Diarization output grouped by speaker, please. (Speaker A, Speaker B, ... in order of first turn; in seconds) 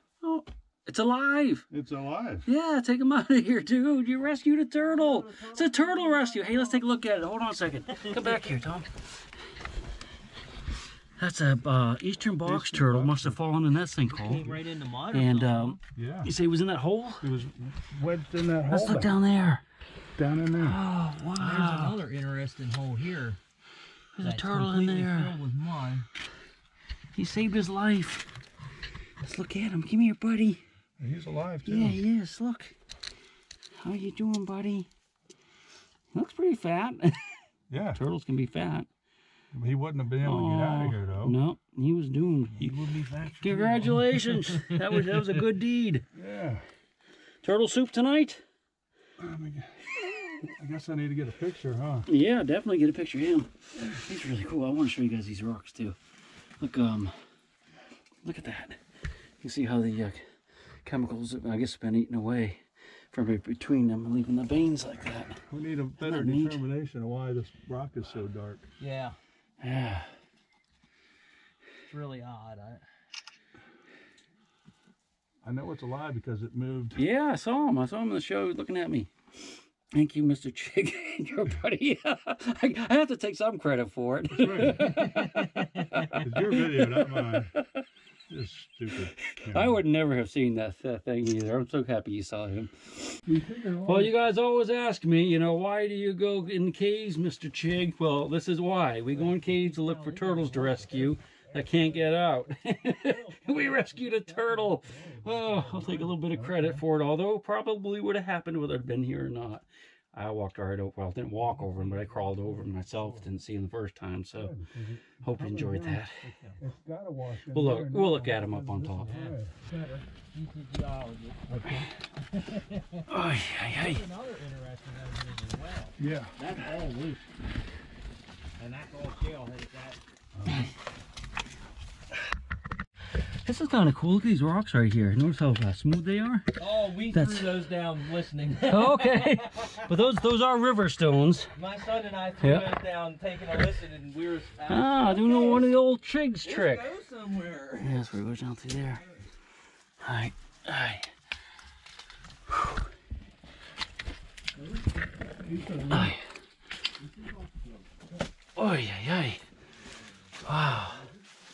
Speaker A: 0.2-1.7, 2.5-9.2, 11.2-14.4, 15.1-17.3, 18.7-19.6, 20.6-22.0, 24.1-25.4, 27.1-28.3, 29.2-30.6, 31.6-32.8, 33.8-34.9, 36.1-37.4, 37.9-38.9, 40.2-46.0, 47.4-48.4, 52.1-56.0, 56.6-57.1, 58.2-58.8, 59.4-65.4, 66.0-66.6, 69.6-70.1, 77.0-87.7, 89.3-93.2, 93.8-114.5, 115.2-116.2, 117.5-119.2, 123.1-124.0, 133.2-136.4, 137.1-137.6, 138.7-141.5, 142.4-142.8, 144.7-146.9, 147.8-149.0, 150.0-151.1, 155.9-156.2, 158.6-159.4, 160.4-161.1
Speaker B: 1.7-2.5, 4.8-6.9, 12.4-13.4, 15.9-16.3, 17.2-19.2, 20.1-20.8, 31.0-32.0, 37.7-38.0, 39.5-41.4, 42.7-44.0, 46.1-46.6, 49.2-52.1, 65.4-68.7, 75.4-77.0, 84.3-85.1, 86.1-87.5, 88.3-89.8, 93.3-94.1, 104.9-106.8, 111.4-113.3, 114.4-116.0, 116.6-119.5, 121.5-121.9, 126.0-126.5, 130.4-130.7, 155.4-156.2
Speaker C: 14.1-15.8, 21.4-23.4, 24.2-26.1, 42.8-44.8, 68.8-69.2, 71.9-72.8, 84.9-86.2, 99.1-102.2, 102.9-106.0, 116.2-116.6, 119.0-121.4, 122.2-123.0, 123.7-127.3, 128.6-130.0, 136.6-139.8, 141.5-145.7, 146.4-148.1